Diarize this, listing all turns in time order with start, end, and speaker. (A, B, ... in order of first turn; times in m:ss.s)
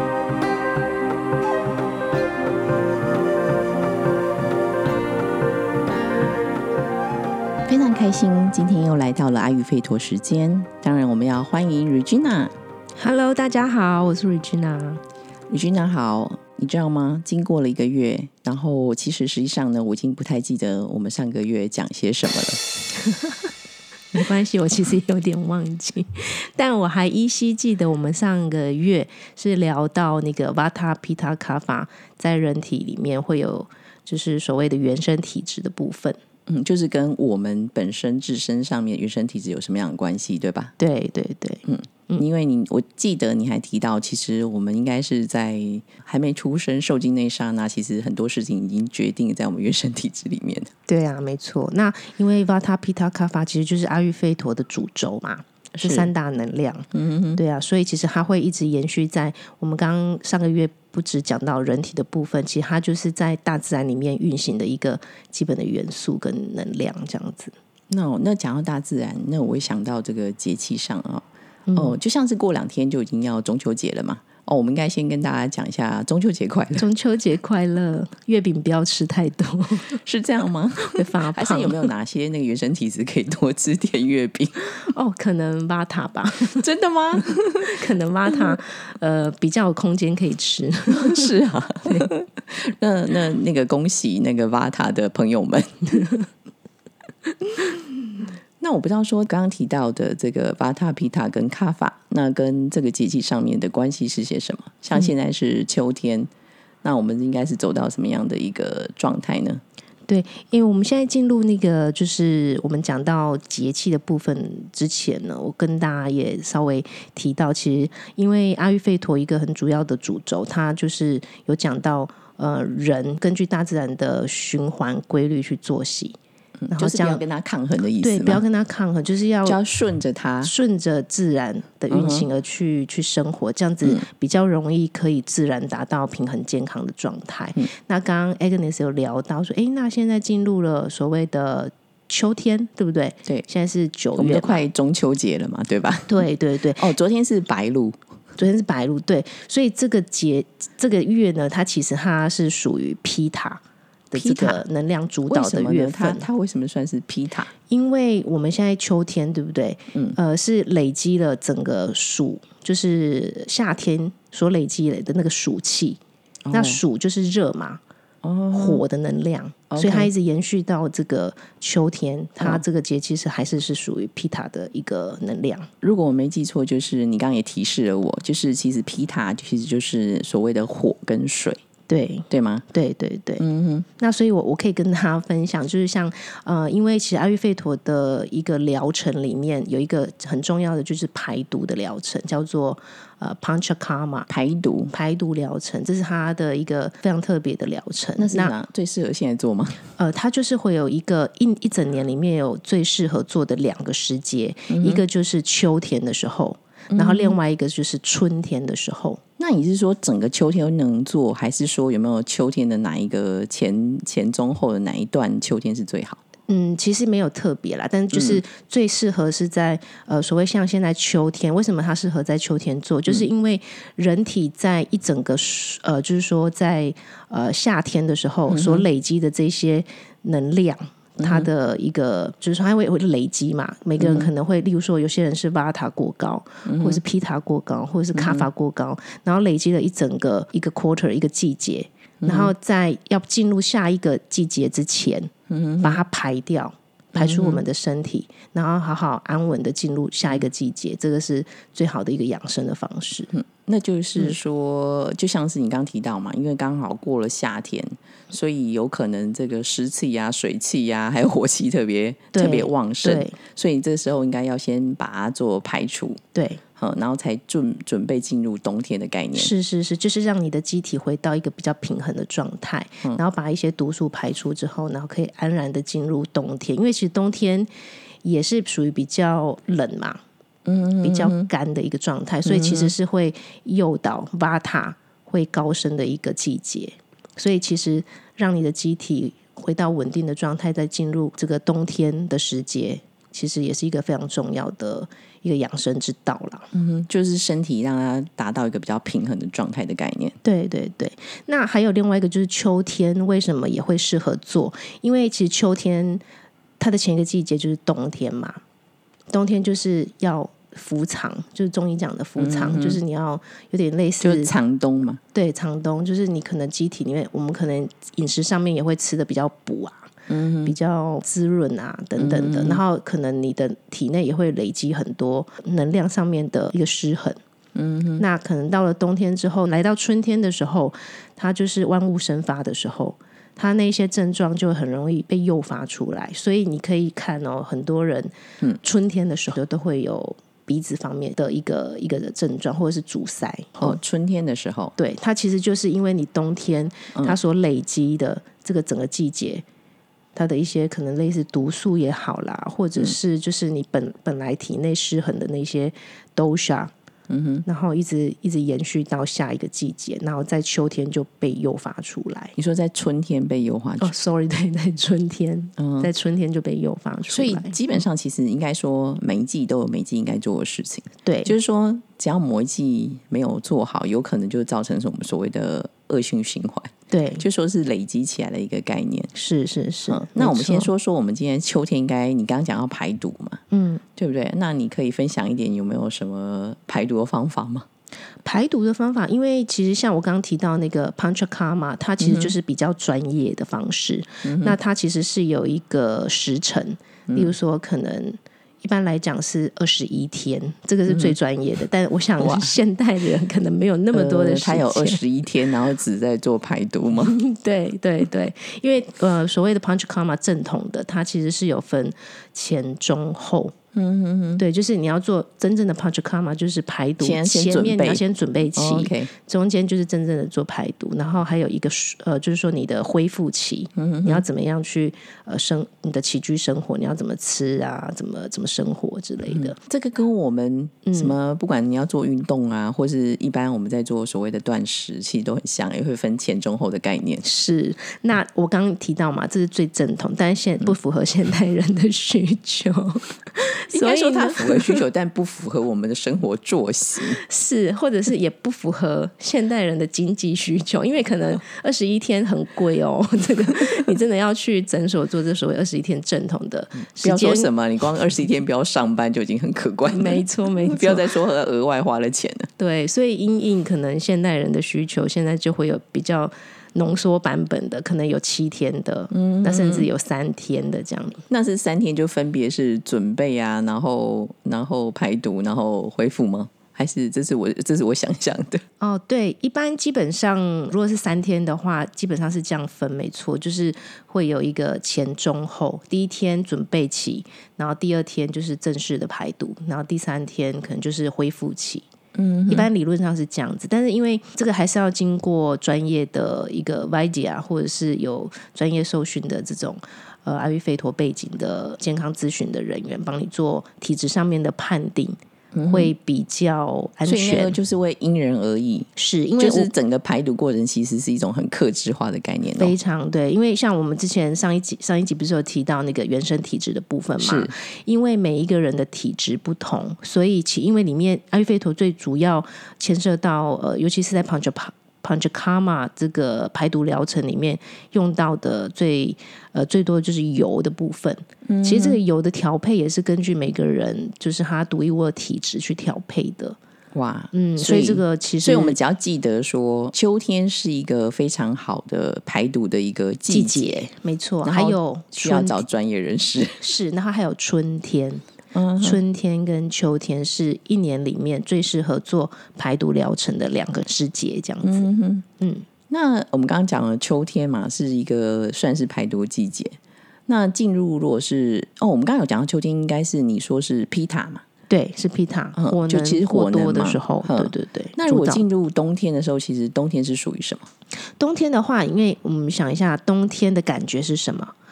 0:07.7-0:12.5 A
0:13.0-0:15.0 B
0:15.5-0:22.6 A
0:23.0-0:23.5 B
0:24.1-0:36.2 B
0:36.5-0:40.7 A
0:40.8-0:42.2 B
0:41.6-0:50.7 A
0:50.9-1:07.5 B
0:55.7-0:56.1 A
0:56.9-0:57.4 A
1:07.9-1:16.9 A
1:11.7-1:12.0 B
1:16.8-1:20.0 B
1:20.0-1:24.8 A
1:20.9-1:21.9 B
1:24.9-1:26.6 B
1:26.6-1:27.8 A
1:27.2-1:31.3 B
1:30.9-1:36.1 A
1:37.5-1:37.8 A
1:38.6-1:46.3 A
1:46.8-1:49.6 A
1:50.1-2:06.2 B
2:06.6-2:08.4 A
2:06.7-2:07.2 B
2:08.0-2:09.6 B
2:09.4-2:10.5 A
2:10.4-2:24.6 B
2:11.9-2:12.3 A
2:24.1-2:26.2 A
2:26.1-2:26.9 B
2:26.8-2:28.0 A
2:28.4-2:36.2 B
2:34.2-2:34.6 A
2:35.3-2:37.5 A
2:37.7-2:46.0 B
2:39.9-2:40.2 A
2:46.4-2:46.8 A
2:46.5-2:47.8 B
2:48.2-2:48.8 A
2:48.5-2:55.7 B
2:49.7-2:50.1 A
2:55.8-3:01.6 A
3:01.9-3:03.4 B
3:02.3-3:02.6 A
3:03.4-3:03.8 A
3:04.0-3:14.3 B
3:14.3-3:14.9 A
3:14.9-3:18.5 B
3:18.2-3:19.8 A
3:20.0-3:29.2 B
3:24.7-3:25.0 A
3:26.9-3:27.3 A
3:29.4-3:36.2 A
3:36.5-4:05.3 B
3:38.1-3:38.4 A
3:48.5-3:48.8 A
3:51.2-3:51.5 A
3:54.0-3:54.3 A
3:56.6-3:57.0 A
3:58.1-3:58.5 A
4:02.2-4:02.5 A
4:05.5-4:06.0 A
4:05.8-4:13.3 B
4:07.2-4:07.6 A
4:13.3-4:26.2 A
4:22.3-4:23.3 B
4:26.3-4:26.6 B
4:26.8-4:29.5 A
4:29.3-4:37.7 B
4:38.2-4:40.2 B
4:40.6-4:41.5 A
4:41.0-4:56.7 B
4:42.4-4:42.9 A
4:56.7-5:00.4 A
5:00.4-5:06.2 B
5:06.8-5:08.6 B
5:09.3-5:14.5 B
5:12.4-5:13.0 A
5:14.2-5:15.2 A
5:15.3-5:20.1 B
5:20.3-5:20.8 A
5:20.6-5:27.4 B
5:22.2-5:22.8 A
5:27.7-5:28.2 A
5:28.2-5:44.0 B
5:43.8-5:44.9 A
5:45.0-5:49.6 B
5:50.3-5:56.9 B
5:57.3-5:57.6 A
5:57.6-6:02.5 B
6:02.6-6:04.1 A
6:04.0-6:07.7 B
6:05.8-6:06.1 A
6:07.3-6:19.3 A
6:11.2-6:11.5 B
6:17.1-6:17.4 B
6:19.3-6:20.9 B
6:20.1-6:23.6 A
6:23.7-6:24.0 B
6:24.2-6:27.8 A
6:28.4-6:45.2 B
6:32.2-6:32.5 A
6:34.4-6:34.8 A
6:41.1-6:41.3 A
6:42.4-6:42.8 A
6:44.1-6:47.4 A
6:47.2-6:53.7 B
6:53.9-6:54.6 A
6:54.6-7:09.8 B
6:57.2-6:58.2 A
6:58.7-6:59.3 A
7:04.0-7:04.4 A
7:09.5-7:17.4 A
7:11.0-7:11.3 B
7:17.4-7:25.0 B
7:23.9-7:27.4 A
7:27.3-7:37.7 B
7:37.2-7:42.7 A
7:40.1-7:41.3 B
7:42.8-7:51.4 B
7:49.3-7:50.1 A
7:51.5-7:58.8 A
7:59.0-8:12.1 B
8:12.3-8:12.9 A
8:12.7-8:27.8 B
8:25.7-8:26.1 A
8:27.2-8:32.9 A
8:29.2-8:29.9 B
8:32.8-8:56.8 B
8:37.4-8:37.7 A
8:51.6-8:52.2 A
8:57.1-9:04.0 A
8:57.5-8:59.0 B
9:03.5-9:05.8 B
9:04.6-9:06.9 A
9:06.8-9:08.4 B
9:08.7-9:09.2 A
9:09.0-9:15.1 B
9:14.8-9:15.4 A
9:15.6-9:15.9 B
9:16.1-9:24.6 A
9:24.9-9:28.6 B
9:25.8-9:30.9 A
9:31.4-9:34.7 B